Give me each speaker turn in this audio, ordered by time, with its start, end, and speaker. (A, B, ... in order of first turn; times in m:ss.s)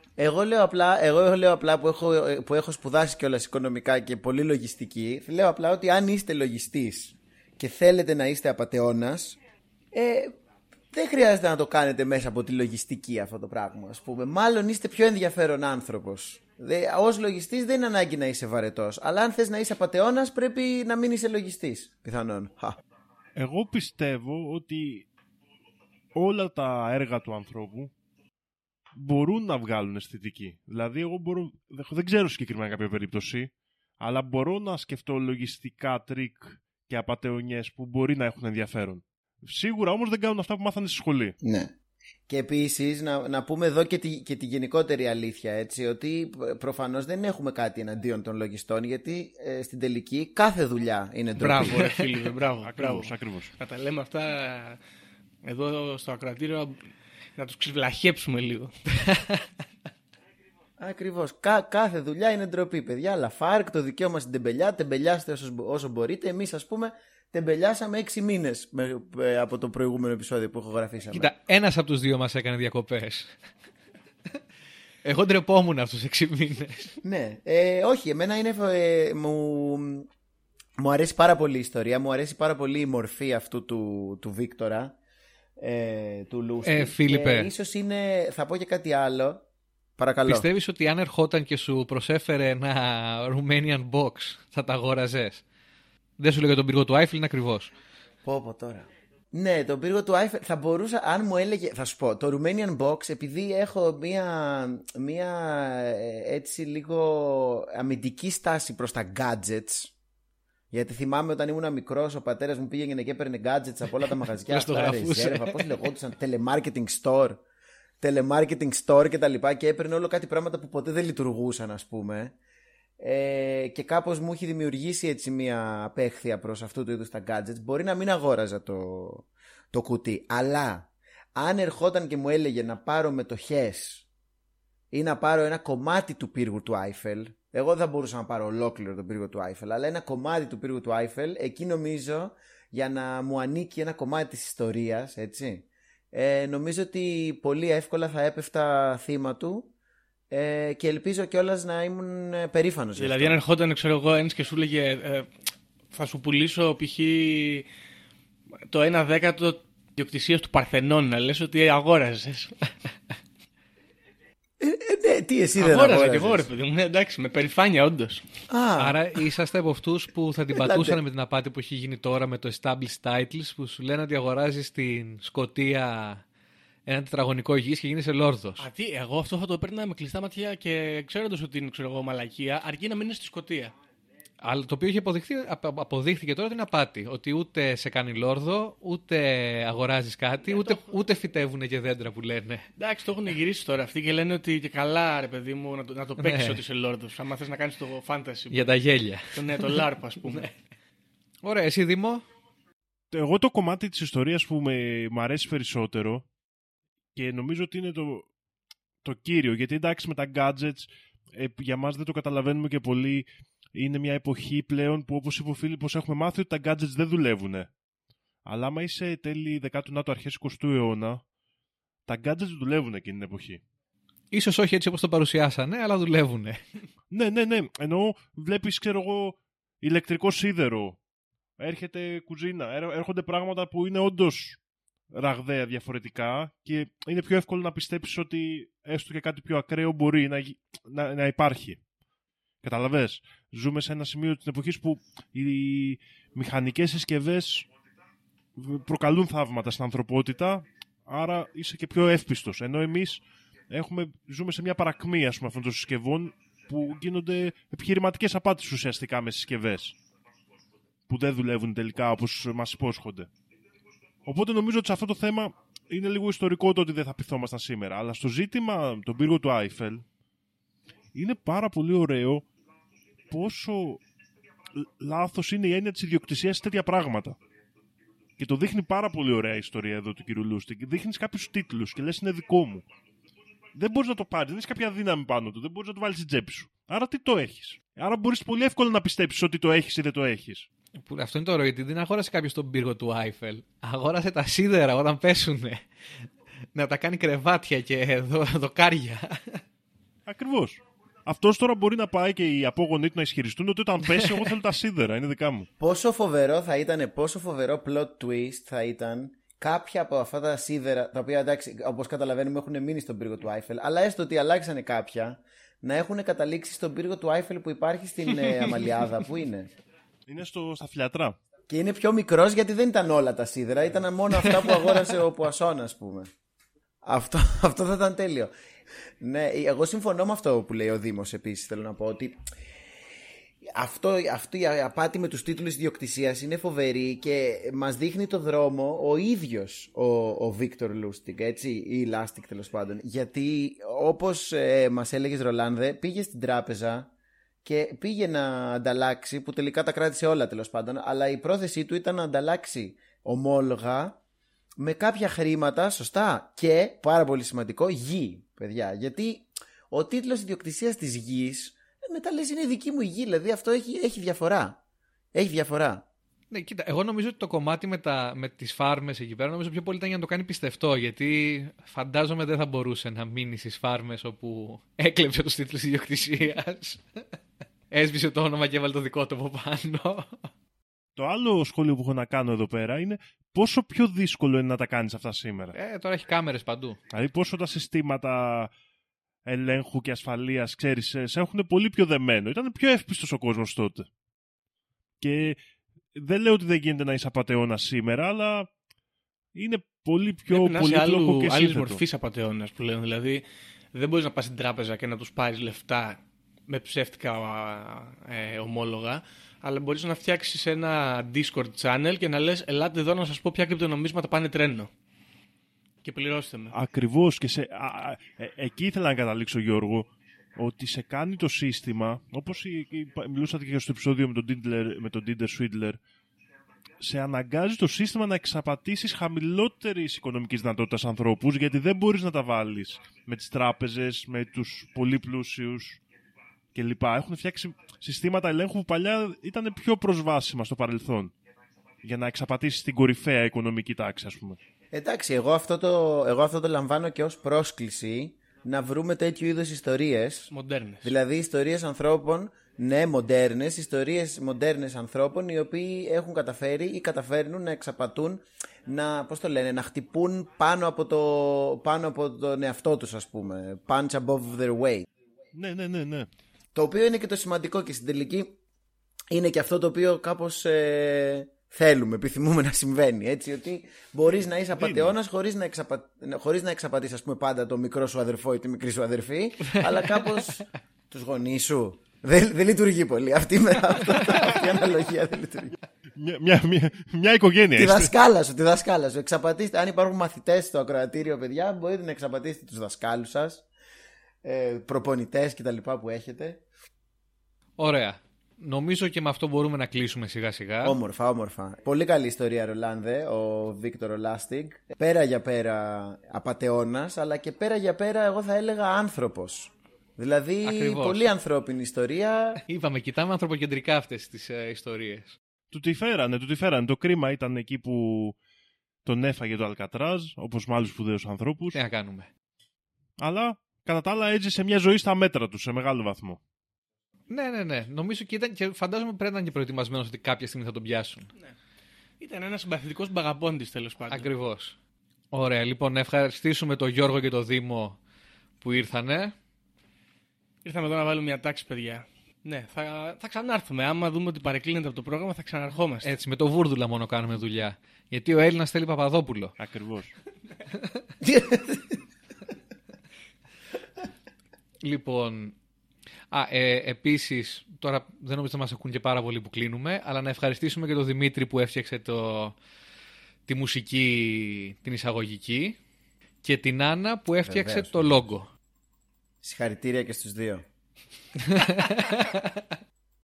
0:00.2-0:09.4 A
0:09.9-0:10.3 A
0:10.9-0:22.8 A
0:23.4-0:25.0 B
0:26.1-0:27.9 B
0:29.0-0:41.3 B
0:41.4-0:41.7 A
0:42.3-0:51.9 A
0:51.4-0:54.8 C
0:52.6-0:53.5 B
0:55.4-0:56.8 C
0:57.4-0:58.7 C
0:59.0-0:59.4 D
1:00.8-1:11.3 A
1:11.1-1:13.3 D
1:15.0-1:16.9 D
1:17.0-1:20.1 A
1:20.8-1:25.0 A
1:25.6-1:29.4 A
1:26.6-1:27.5 D
1:30.0-1:30.5 A
1:30.2-1:35.4 D
1:36.2-1:37.7 D
1:38.2-1:49.9 A
1:50.7-1:57.4 A
1:54.5-1:55.7 D
1:58.0-2:02.4 A
2:03.0-2:14.0 A
2:14.9-2:29.7 A
2:30.3-2:33.4 A
2:33.0-2:35.3 C
2:35.9-2:37.6 C
2:38.7-2:42.5 C
2:44.6-2:46.5 A
2:45.6-2:48.2 C
2:48.5-2:49.0 A
2:48.8-2:56.2 D
2:50.5-2:51.0 A
2:56.9-2:58.7 D
2:58.6-3:03.7 C
3:04.4-3:12.7 D
3:10.4-3:11.0 C
3:12.8-3:18.6 C
3:16.2-3:16.6 D
3:18.5-3:19.8 D
3:19.3-3:20.5 C
3:21.4-3:22.2 D
3:23.1-3:26.2 B
3:27.1-3:28.3 B
3:29.0-3:37.7 B
3:38.4-3:41.2 B
3:42.0-3:43.6 B
3:44.3-3:46.6 D
3:47.1-3:51.0 B
3:51.6-3:54.6 B
3:55.1-4:01.8 B
4:02.6-4:07.7 B
4:08.6-4:19.9 B
4:21.1-4:23.3 B
4:24.2-4:30.0 B
4:31.1-4:32.4 B
4:33.3-4:34.0 B
4:34.8-4:37.4 B
4:38.4-4:42.8 B
4:43.8-4:50.7 B
4:51.0-4:55.8 D
4:56.7-4:59.6 D
5:00.2-5:05.7 B
5:05.8-5:19.7 A
5:20.3-5:21.4 B
5:21.7-5:26.3 A
5:27.0-5:28.5 A
5:29.2-5:32.4 A
5:33.6-5:47.1 A
5:47.6-5:54.2 A
5:54.8-6:04.8 A
6:05.3-6:06.0 A
6:06.5-6:17.0 D
6:17.9-6:20.4 D
6:21.2-6:25.7 B
6:25.7-6:27.0 D
6:27.1-6:28.7 B
6:29.4-6:34.1 B
6:35.2-6:35.6 B
6:36.1-6:38.7 B
6:39.5-6:42.0 B
6:40.5-6:54.9 C
6:56.0-6:56.7 C
6:56.7-7:06.0 B
7:07.0-7:16.0 B
7:16.7-7:21.3 B
7:22.0-7:24.6 B
7:24.9-7:30.5 A
7:30.5-7:31.1 C
7:31.0-7:45.0 A
7:45.5-7:46.3 B
7:46.7-7:48.6 A
7:49.3-8:05.8 A
7:54.8-7:55.1 B
8:06.2-8:08.1 B
8:07.8-8:13.6 A
8:14.4-8:16.6 A
8:17.8-8:21.0 D
8:20.8-8:32.6 A
8:30.6-8:31.3 D
8:32.6-8:35.4 D
8:35.7-8:38.4 B
8:39.0-8:41.8 B
8:41.7-8:42.3 D
8:43.2-8:46.4 B
8:47.3-8:51.3 D
8:52.2-8:54.3 C
8:54.1-8:54.7 D
8:55.3-8:58.0 D
8:58.6-8:59.3 D
9:00.6-9:06.1 C
9:06.0-9:09.5 D
9:09.6-9:10.1 B
9:11.2-9:12.0 A
9:14.8-9:15.5 D
9:16.3-9:22.6 D
9:23.5-9:25.8 D
9:26.4-9:28.5 D
9:27.4-9:28.1 A
9:29.4-9:30.6 A
9:31.4-9:32.6 D